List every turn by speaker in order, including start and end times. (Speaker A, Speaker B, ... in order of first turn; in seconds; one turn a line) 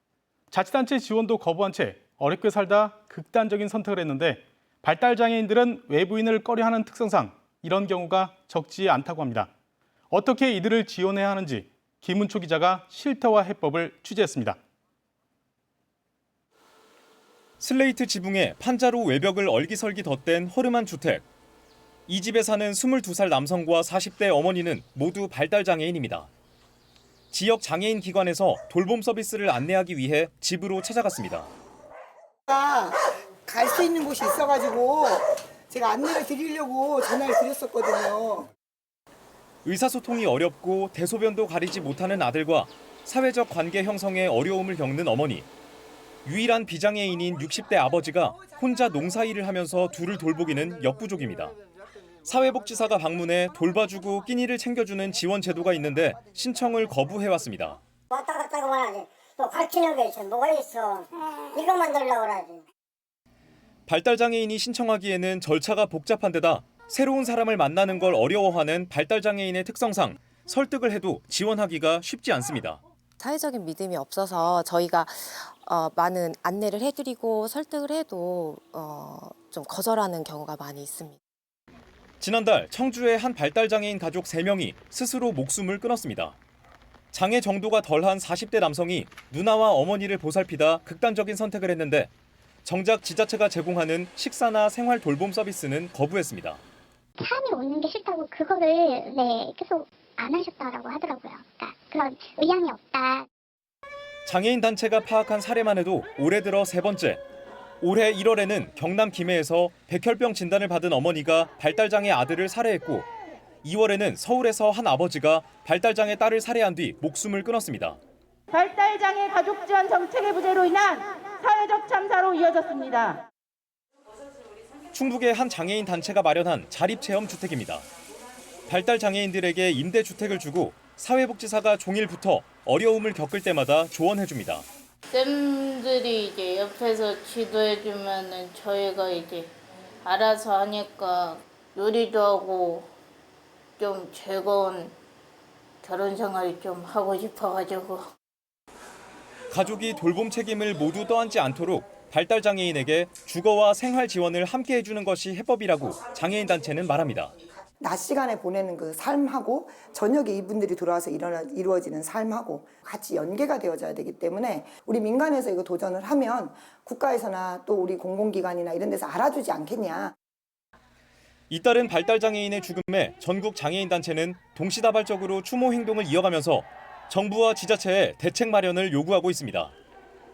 Speaker A: 0.5-9.5
Speaker A: 10.1-14.6
Speaker B: 17.6-21.2
Speaker B: 22.1-26.3
Speaker B: 27.3-31.5
Speaker C: 32.6-32.9
Speaker C: 33.5-35.2
Speaker C: 35.7-38.5
Speaker B: 39.6-45.5
Speaker B: 46.2-51.5
Speaker B: 52.2-57.8
Speaker D: 58.1-61.0
Speaker D: 61.5-62.6
Speaker B: 63.9-72.8
Speaker E: 73.2-81.2
Speaker B: 82.2-86.4
Speaker B: 87.1-92.1
Speaker B: 92.6-96.6
Speaker F: 97.2-103.3
Speaker B: 104.2-107.2
Speaker B: 107.8-113.1
Speaker B: 113.6-118.0
Speaker G: 118.5-123.2
Speaker B: 124.9-127.9
Speaker B: 128.7-134.7
Speaker H: 135.1-139.5
Speaker H: 140.0-142.9
Speaker H: 143.8-144.9
Speaker H: 145.8-148.0
Speaker B: 149.5-157.3
Speaker C: 157.8-170.1
Speaker B: 171.5-179.7